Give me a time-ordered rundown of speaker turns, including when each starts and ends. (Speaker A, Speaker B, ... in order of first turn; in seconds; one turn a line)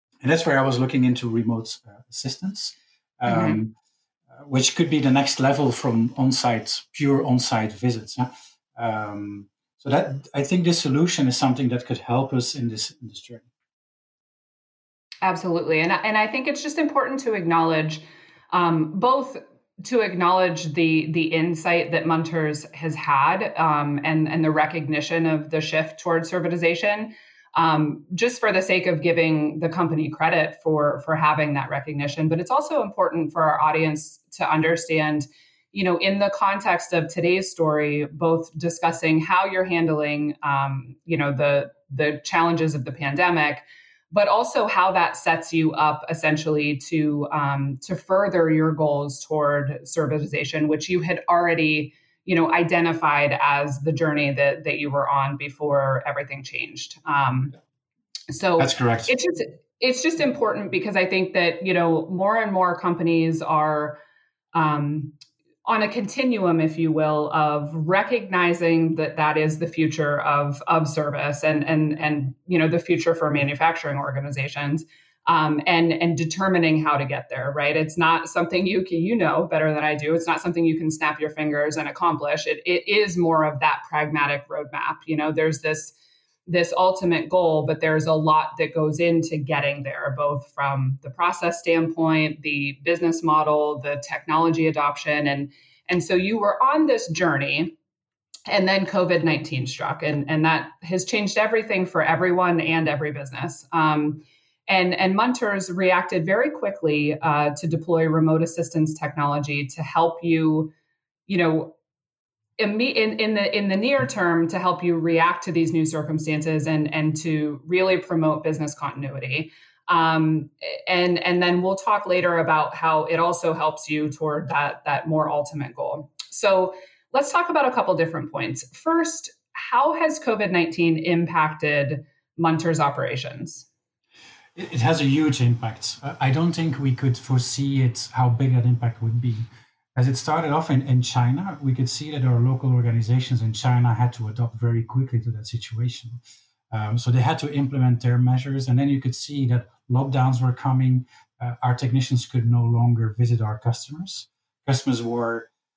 Speaker A: 0.2-3.7
Speaker B: 3.3-3.6
Speaker A: 4.3-13.5
Speaker B: 15.2-57.6
Speaker B: 58.3-64.0
Speaker A: 58.6-59.1
Speaker B: 64.5-86.0
Speaker B: 86.5-97.7
Speaker B: 98.5-110.7
Speaker B: 111.3-111.7
Speaker B: 112.6-133.7
Speaker A: 134.6-146.2
Speaker A: 146.7-155.5